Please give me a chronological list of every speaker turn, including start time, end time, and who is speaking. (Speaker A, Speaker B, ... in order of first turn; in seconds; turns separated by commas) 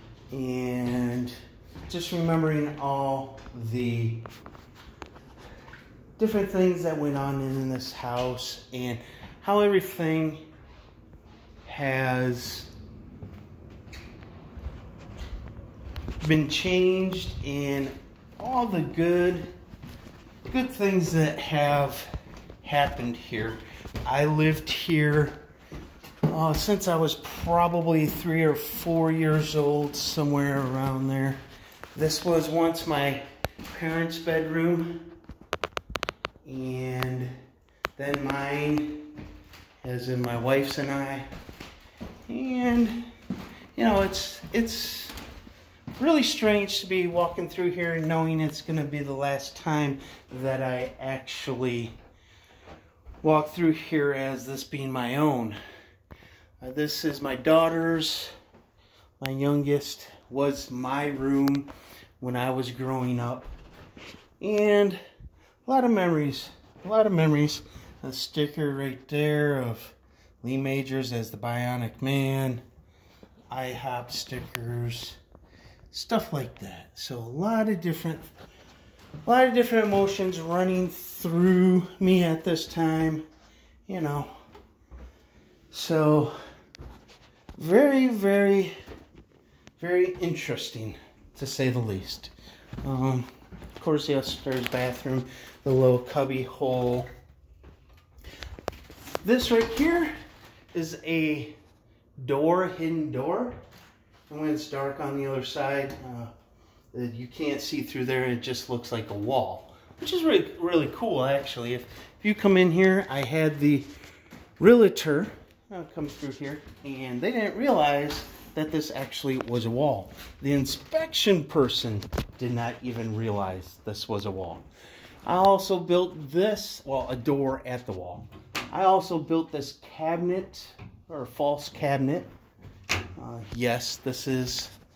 Speaker A: 0.3-1.4, Speaker A: 1.9-4.2, Speaker A: 6.2-10.4, Speaker A: 11.7-12.7, Speaker A: 16.2-19.5, Speaker A: 20.5-22.1, Speaker A: 22.6-25.4, Speaker A: 26.3-31.4, Speaker A: 31.9-35.1, Speaker A: 36.4-37.3, Speaker A: 38.0-39.1, Speaker A: 39.8-41.3, Speaker A: 42.3-43.1, Speaker A: 43.8-45.2, Speaker A: 46.0-52.0, Speaker A: 53.2-55.6, Speaker A: 56.6-58.3, Speaker A: 59.2-63.5, Speaker A: 64.4-65.0, Speaker A: 65.7-72.6, Speaker A: 73.5-75.2, Speaker A: 75.9-78.3, Speaker A: 79.3-83.2, Speaker A: 83.9-84.3, Speaker A: 85.7-86.4, Speaker A: 87.6-88.7, Speaker A: 89.8-97.1, Speaker A: 99.2-100.1, Speaker A: 100.7-101.6, Speaker A: 102.2-103.6, Speaker A: 104.3-106.3, Speaker A: 106.9-113.9, Speaker A: 114.6-124.7, Speaker A: 125.2-132.3, Speaker A: 133.2-134.7